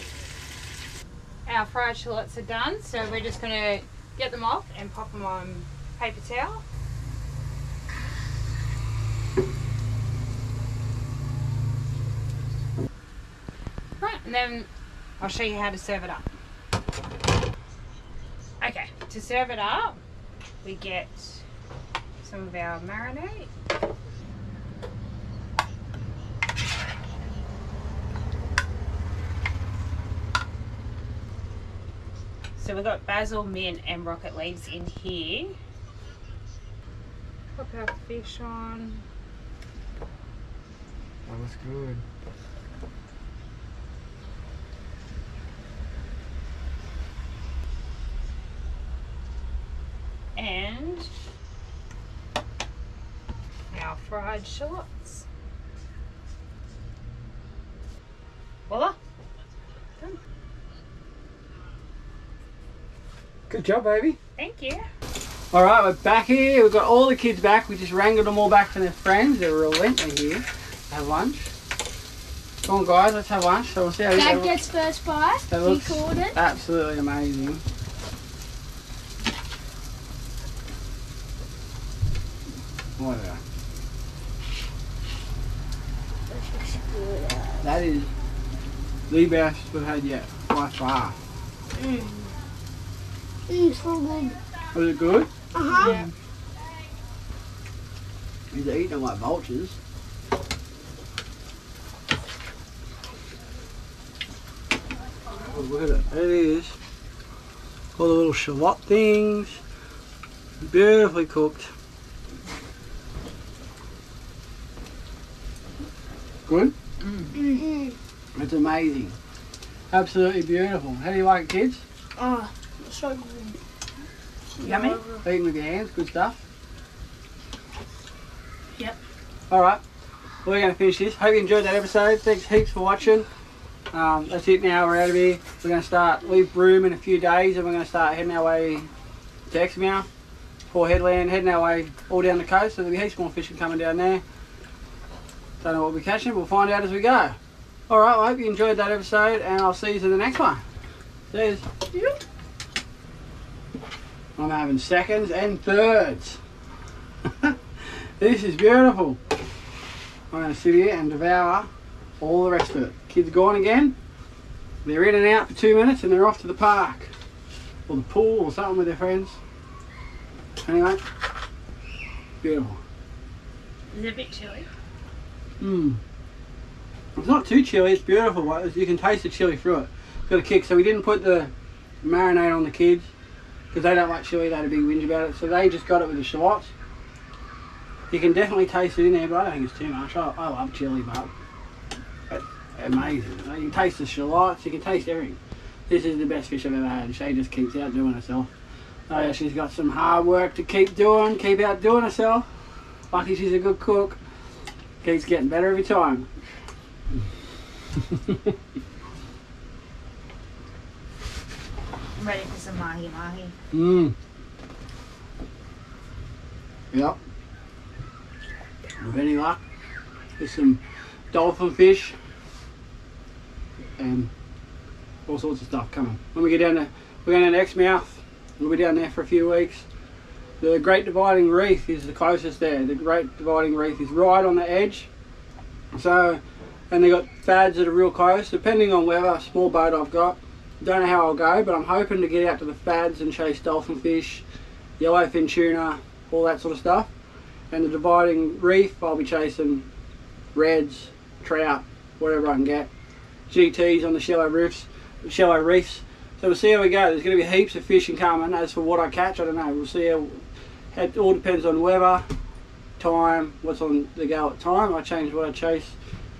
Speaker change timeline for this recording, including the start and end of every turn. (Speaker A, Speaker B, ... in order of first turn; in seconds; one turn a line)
Speaker A: 1.5-6.6
Speaker A: 14.0-14.7
Speaker A: 15.2-16.3
Speaker A: 18.6-20.0
Speaker A: 20.6-21.4
Speaker A: 22.2-23.5
Speaker A: 32.5-35.5
Speaker A: 37.5-39.0
Speaker B: 41.2-42.0
Speaker A: 50.4-51.1
Speaker A: 53.7-55.3
Speaker A: 58.7-59.0
Speaker B: 63.5-64.2
Speaker A: 64.3-64.8
Speaker B: 65.5-71.5
Speaker B: 72.6-74.6
Speaker C: 74.1-76.4
Speaker B: 75.5-77.6
Speaker B: 83.0-83.4
Speaker C: 86.3-87.7
Speaker B: 87.6-88.1
Speaker B: 89.1-91.2
Speaker C: 91.8-92.3
Speaker C: 93.5-94.4
Speaker B: 94.7-95.3
Speaker C: 95.5-96.1
Speaker B: 95.8-96.1
Speaker B: 98.5-99.8
Speaker B: 105.4-106.8
Speaker B: 108.0-109.6
Speaker B: 110.6-111.7
Speaker B: 116.5-116.7
Speaker A: 117.0-117.3
Speaker C: 117.3-117.9
Speaker B: 118.3-119.2
Speaker B: 119.9-121.8
Speaker C: 122.2-123.5
Speaker A: 124.6-125.0
Speaker C: 124.6-125.1
Speaker B: 125.2-126.4
Speaker B: 129.5-129.8
Speaker B: 130.4-133.3
Speaker B: 133.9-138.9
Speaker B: 139.5-140.1
Speaker B: 140.7-144.2
Speaker B: 145.6-147.4
Speaker B: 147.9-150.6
Speaker B: 151.3-151.6
Speaker B: 154.3-156.4
Speaker B: 157.2-159.2
Speaker B: 160.3-161.7
Speaker B: 162.2-163.9
Speaker B: 164.8-167.1
Speaker B: 167.9-169.4
Speaker B: 170.6-171.0
Speaker B: 172.4-172.8
Speaker A: 173.9-174.7
Speaker B: 175.6-176.0
Speaker B: 177.1-183.1
Speaker B: 183.7-186.7
Speaker B: 188.1-191.3
Speaker B: 192.3-198.5
Speaker B: 199.1-202.5
Speaker B: 203.1-204.2
Speaker B: 205.0-206.3
Speaker B: 208.1-208.5
Speaker A: 212.2-213.5
Speaker B: 213.7-214.1
Speaker B: 216.9-217.2
Speaker B: 219.0-219.6
Speaker B: 220.4-222.2
Speaker B: 224.0-224.3
Speaker B: 225.3-229.9
Speaker B: 230.6-235.1
Speaker B: 235.9-244.4
Speaker B: 245.0-247.1
Speaker B: 247.7-249.9
Speaker B: 250.5-252.9
Speaker B: 253.5-262.2
Speaker B: 263.0-266.0